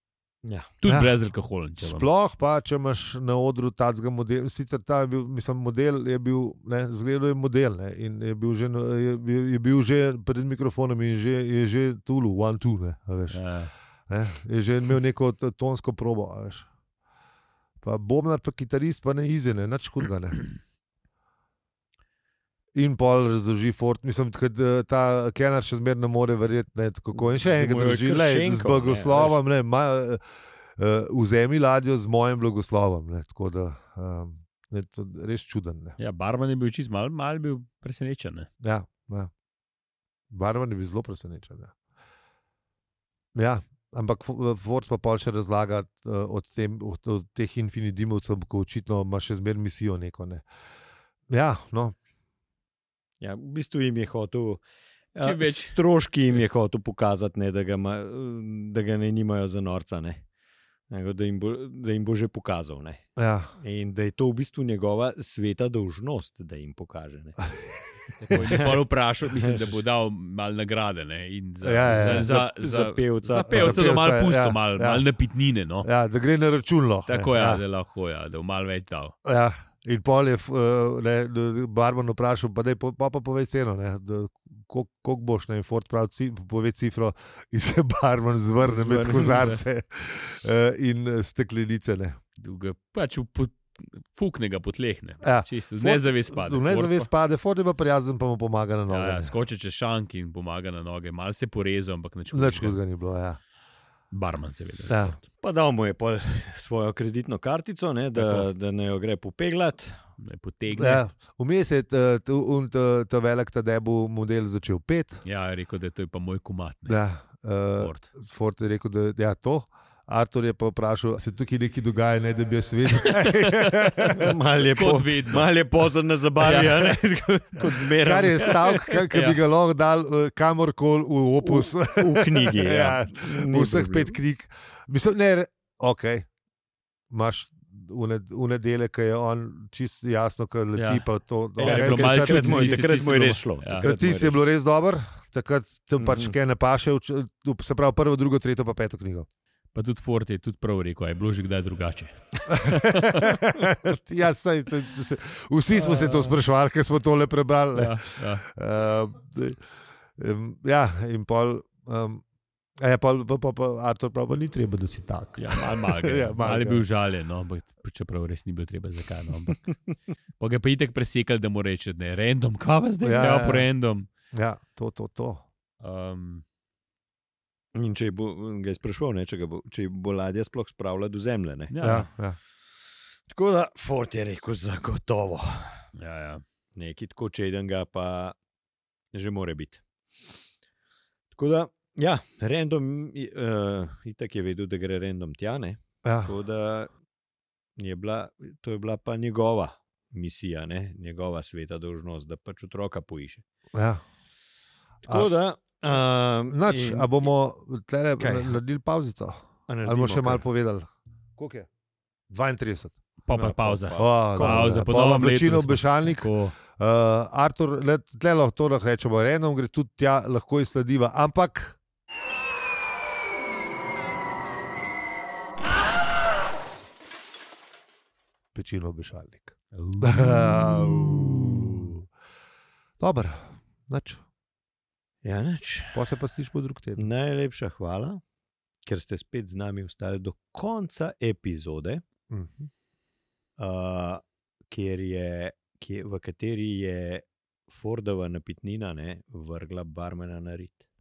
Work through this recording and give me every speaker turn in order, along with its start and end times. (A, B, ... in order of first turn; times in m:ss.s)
0:00.4-0:00.7 A
0:00.8-0:02.1 B
0:00.8-0:01.1 C
0:01.8-0:13.4 C
0:13.3-0:13.7 B
0:14.1-0:16.7 C
0:17.8-0:20.5 C
0:22.8-0:30.2 C
0:27.2-0:29.4 A
0:30.8-0:36.0 C
0:36.0-0:38.5 B
0:38.6-0:39.3 C
0:40.3-0:41.7 C
0:43.4-0:50.4 C
0:51.3-0:52.0 C
0:53.2-0:54.6 A
0:55.2-1:00.2 A
0:55.2-0:55.8 B
1:00.9-1:07.5 A
1:03.2-1:03.5 C
1:08.2-1:15.9 B
1:08.4-1:08.8 A
1:09.4-1:09.8 A
1:11.6-1:12.3 C
1:11.9-1:13.9 A
1:13.5-1:15.0 C
1:15.8-1:17.6 C
1:17.1-1:19.2 B
1:19.2-1:32.2 C
1:28.6-1:29.5 A
1:32.4-1:37.1 B
1:35.2-1:39.3 C
1:38.9-1:42.8 B
1:42.3-1:43.4 C
1:44.1-1:45.2 B
1:44.9-1:45.2 C
1:45.4-1:50.0 A
1:48.2-1:48.5 C
1:50.2-1:51.0 B
1:50.8-1:55.2 C
1:55.2-1:57.0 B
1:56.9-2:04.3 C
1:57.8-1:58.1 B
2:03.4-2:03.8 B
2:04.2-2:09.0 A
2:04.7-2:05.5 B
2:06.4-2:07.0 B
2:08.0-2:16.3 C
2:09.0-2:09.4 B
2:11.4-2:14.2 A
2:17.1-2:22.8 C
2:20.8-2:21.0 B
2:21.6-2:23.9 B
2:21.6-2:24.4 A
2:23.8-2:29.3 C
2:26.0-2:26.4 A
2:29.7-2:33.4 B
2:32.5-2:39.6 C
2:35.7-2:36.4 B
2:37.7-2:38.4 B
2:40.2-2:42.2 C
2:42.8-2:46.8 C
2:45.4-2:49.6 B
2:50.4-2:54.1 B
2:53.0-2:53.7 C
2:54.3-2:55.5 C
2:55.8-2:56.4 B
2:57.7-3:01.7 A
3:01.7-3:02.1 B
3:01.8-3:02.4 C
3:03.3-3:05.9 A
3:06.0-3:06.4 B
3:06.8-3:08.4 A
3:09.1-3:09.8 A
3:11.3-3:16.9 A
3:16.0-3:16.3 C
3:17.8-3:23.4 A
3:23.7-3:24.0 C
3:25.1-3:25.3 C
3:25.1-3:27.3 A
3:26.5-3:31.7 C
3:28.2-3:28.6 A
3:29.7-3:30.4 A
3:32.3-3:33.0 C
3:33.2-3:36.6 B
3:33.3-3:34.9 A
3:34.0-3:41.8 C
3:48.6-3:52.0 C
3:49.7-3:50.5 B
3:50.9-3:51.9 A
3:53.0-3:54.2 C
3:55.2-3:56.1 A
3:55.9-3:57.0 C
3:57.0-3:58.2 A
3:58.9-4:02.0 A
4:02.3-4:02.7 C
4:03.6-4:10.8 A